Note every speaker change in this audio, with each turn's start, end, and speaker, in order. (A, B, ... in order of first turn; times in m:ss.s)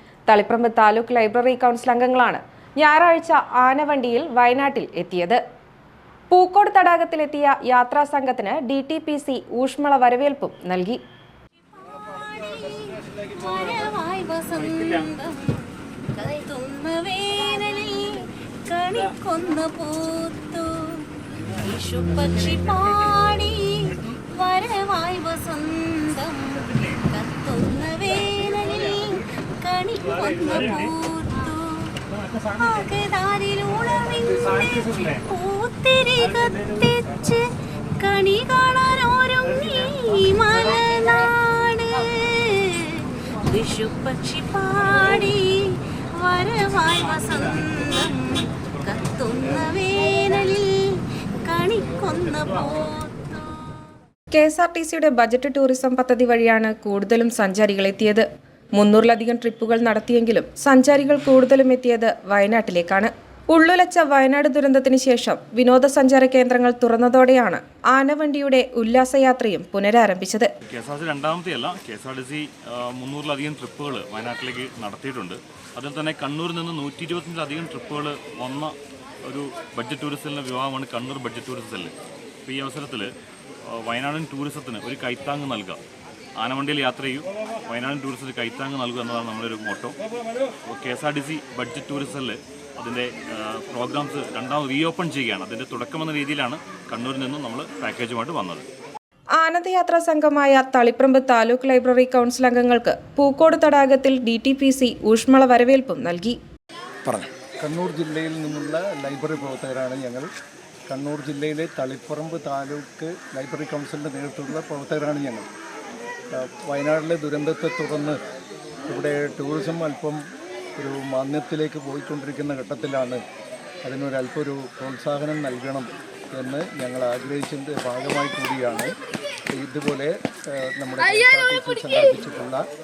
0:00.3-0:05.4 A
0:06.3-0:11.0 A
0:11.7-0:37.4 B
0:38.0-0:53.7 B
0:54.3-1:10.5 A
1:10.7-1:18.7 C
1:19.2-1:21.9 C
1:22.4-1:23.1 C
1:23.6-1:25.8 C
1:26.4-1:30.0 C
1:30.7-1:38.6 C
1:39.4-1:46.4 A
1:47.0-1:50.2 D
1:50.9-1:55.5 D
1:56.3-1:58.2 D
1:58.9-2:00.2 D
2:00.8-2:03.2 D
2:03.8-2:08.9 D
2:09.5-2:12.6 D